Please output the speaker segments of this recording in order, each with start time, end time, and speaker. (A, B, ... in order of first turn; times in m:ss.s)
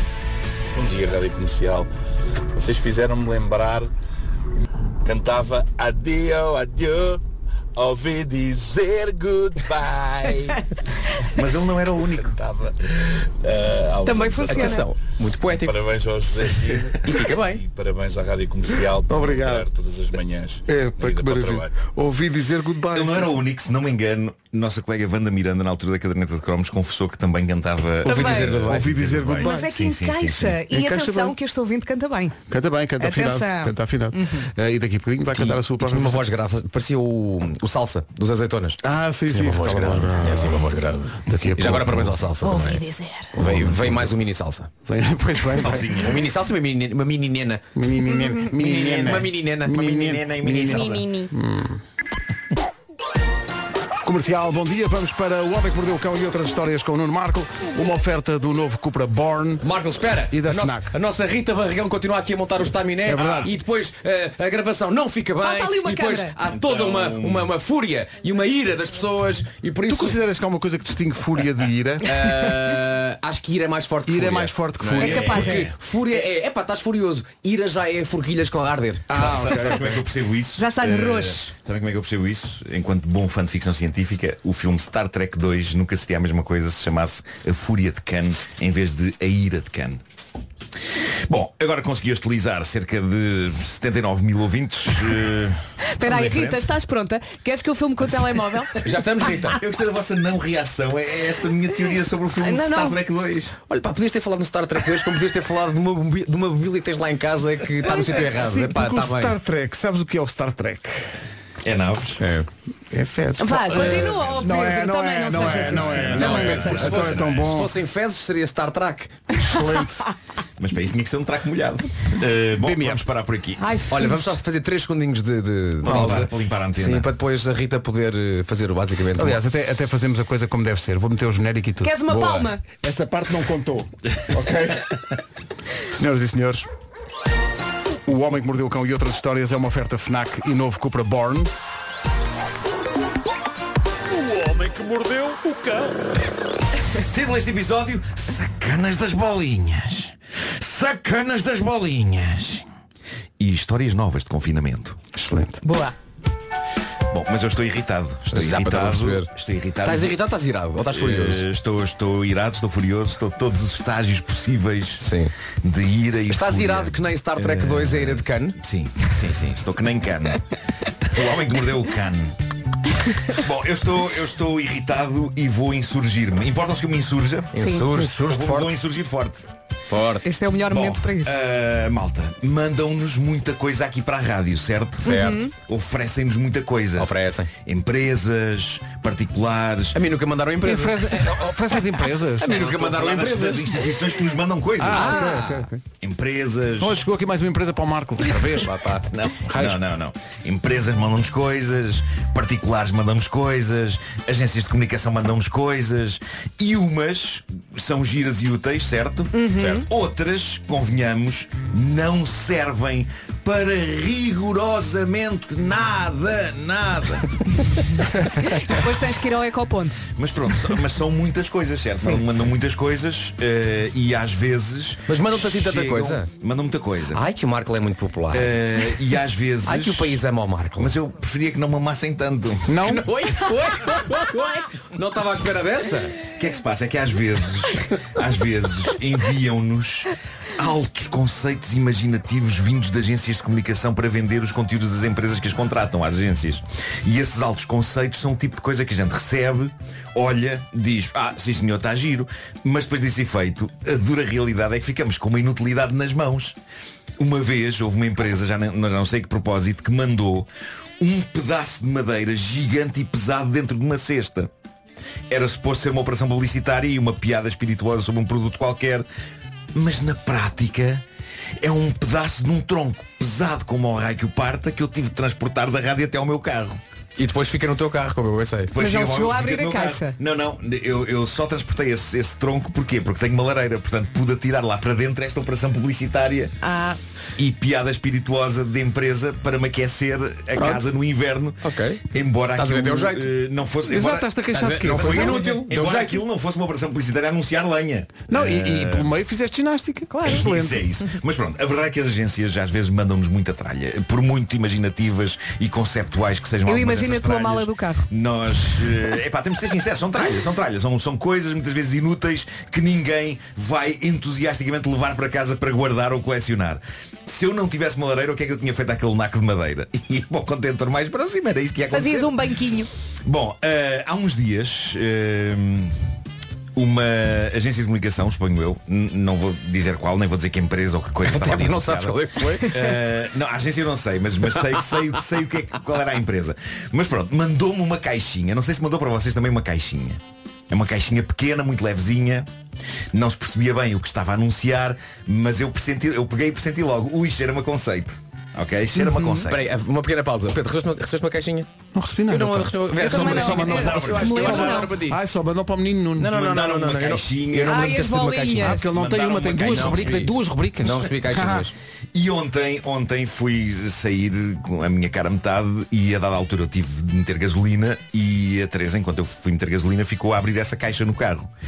0:00.8-0:01.9 A
0:02.5-0:03.9 A
0:05.0-0:07.2 A
0:07.8-0:10.6 A
0:11.4-0:12.3 B
0:12.2-0:14.9 A
0:14.0-0:14.9 C
0:14.4-0:15.8 D
0:15.4-0:21.9 A
0:16.3-0:17.6 D
0:19.1-0:19.7 E
0:20.7-0:23.4 E
0:22.9-0:30.6 B
0:28.0-0:29.7 E
0:28.0-0:28.7 C
0:29.4-0:32.4 C
0:30.7-0:31.4 E
0:32.5-0:36.2 E
0:33.0-0:34.5 C
0:35.3-0:44.7 D
0:38.8-0:42.3 E
0:42.4-0:43.4 C
0:43.4-0:44.1 E
0:44.9-0:46.0 E
0:45.5-0:46.2 B
0:46.0-0:47.8 D
0:47.8-0:51.8 E
0:48.6-0:51.0 D
0:48.6-0:49.1 B
0:49.9-0:51.1 B
0:54.0-0:59.7 E
0:59.6-1:10.2 D
1:00.3-1:01.0 E
1:03.1-1:03.5 E
1:03.2-1:03.5 B
1:05.4-1:06.3 C
1:06.5-1:07.5 B
1:09.9-1:12.2 E
1:12.0-1:19.5 D
1:14.1-1:15.5 E
1:15.0-1:15.7 C
1:15.1-1:15.8 B
1:19.1-1:20.0 E
1:19.2-1:30.0 B
1:20.6-1:21.5 C
1:31.3-1:36.7 B
1:35.9-1:38.7 C
1:38.8-1:39.6 D
1:39.5-1:43.6 B
1:42.4-1:43.0 C
1:43.6-1:49.4 D
1:48.2-1:51.1 E
1:51.6-1:52.2 B
1:52.2-1:52.5 D
1:52.9-1:57.7 E
1:53.4-1:57.0 C
1:53.8-1:54.5 B
1:55.4-1:57.5 B
1:56.1-1:59.4 D
1:59.4-2:00.1 E
2:00.6-2:03.6 B
2:02.6-2:03.0 E
2:03.6-2:04.4 C
2:03.9-2:09.4 D
2:05.8-2:07.1 B
2:05.9-2:06.3 E
2:09.2-2:12.0 E
2:11.8-2:12.6 C
2:12.1-2:12.5 D
2:12.8-2:14.9 E
2:15.9-2:16.7 E
2:18.1-2:21.5 E
2:24.2-2:25.9 E
2:27.1-2:32.7 B
2:33.4-2:35.0 B
2:35.2-2:35.6 D
2:35.6-2:36.0 C
2:37.1-2:40.2 B
2:38.3-2:39.3 D
2:39.8-2:41.4 D
2:40.9-2:45.1 B
2:45.0-2:45.3 D
2:45.6-2:50.5 B
2:46.3-2:48.6 D
2:51.0-2:52.4 B
2:53.2-2:59.5 B
2:57.5-2:58.7 D
2:57.6-2:57.9 C
2:57.9-2:58.7 E
2:59.9-3:00.3 D
3:00.2-3:01.4 C
3:00.7-3:07.1 B
3:05.0-3:05.5 C
3:05.0-3:05.4 D
3:07.0-3:07.5 D
3:07.6-3:10.0 B
3:09.9-3:14.1 D
3:10.6-3:12.6 E
3:12.5-3:15.2 B
3:14.8-3:15.8 E
3:14.9-3:15.7 D
3:16.0-3:17.0 B
3:16.8-3:18.7 E
3:18.3-3:19.1 D
3:19.1-3:37.3 B
3:19.4-3:19.8 E
3:29.3-3:29.9 C
3:38.4-3:40.0 C
3:40.2-3:47.2 B
3:45.1-3:46.3 D
3:47.1-3:49.0 D
3:48.3-3:50.2 B
3:49.6-3:50.9 D
3:50.8-3:52.8 B
3:52.7-3:53.1 E
3:52.8-3:56.2 D
3:56.3-4:16.6 B
4:17.2-4:20.5 B
4:21.0-4:24.5 B
4:25.3-4:29.1 B
4:29.7-4:31.0 B
4:31.6-4:36.8 B
4:37.2-4:38.8 D
4:38.7-4:46.5 B
4:38.8-4:40.2 C
4:46.6-4:47.0 C
4:47.4-4:59.1 B
4:51.6-4:53.4 D
4:53.8-4:55.6 E
4:54.5-4:56.2 D
4:58.3-5:01.0 E
5:00.1-5:00.5 C
5:00.2-5:22.4 B
5:06.7-5:08.1 C
5:21.9-5:22.9 C
5:23.2-5:26.0 B
5:26.8-5:42.5 B
5:31.2-5:32.9 D
5:43.1-5:49.7 B
5:49.0-5:49.5 C
5:49.5-5:51.7 D
5:51.9-5:56.4 E
5:52.3-5:55.2 D
5:53.0-5:54.9 C
5:53.7-5:54.8 B
5:56.2-5:58.9 D
5:56.3-5:58.0 B
5:57.6-5:58.9 C
5:58.6-6:01.7 E
5:58.8-6:00.3 B
5:59.6-6:01.7 D
6:02.1-6:11.5 B